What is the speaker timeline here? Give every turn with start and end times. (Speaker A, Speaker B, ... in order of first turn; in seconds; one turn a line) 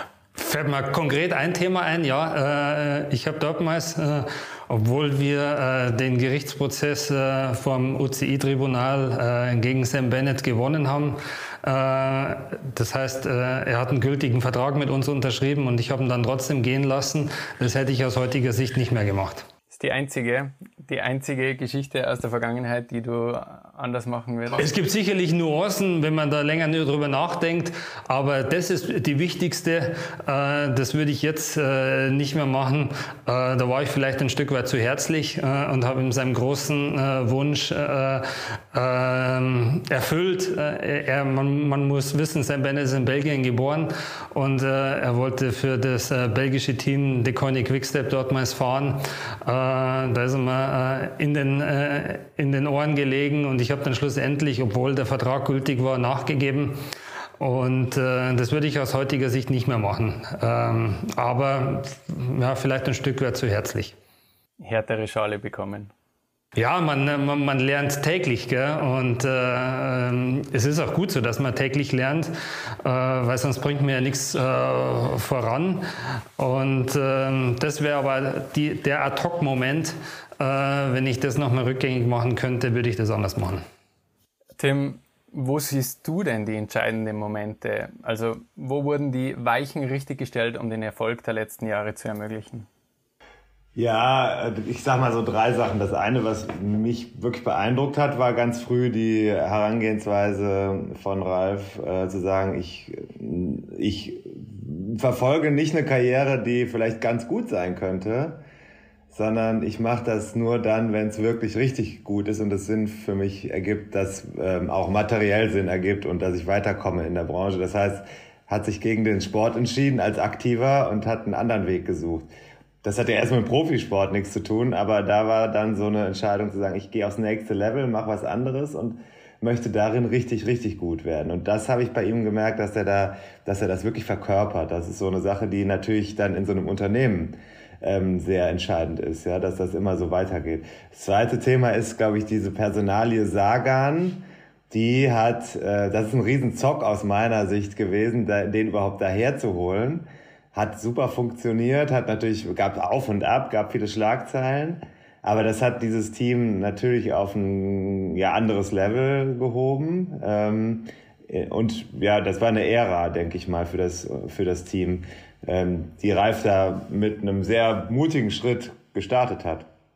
Speaker A: 0.3-19.5
Speaker B: 19.7-24.7
Speaker A: 24.6-56.8
Speaker A: 57.4-64.0
Speaker B: 64.6-65.9
Speaker A: 66.6-72.3
Speaker A: 72.8-75.8
Speaker A: 76.4-83.6
Speaker B: 84.6-92.7
Speaker C: 93.8-108.4
Speaker C: 109.1-122.3
Speaker C: 122.8-169.7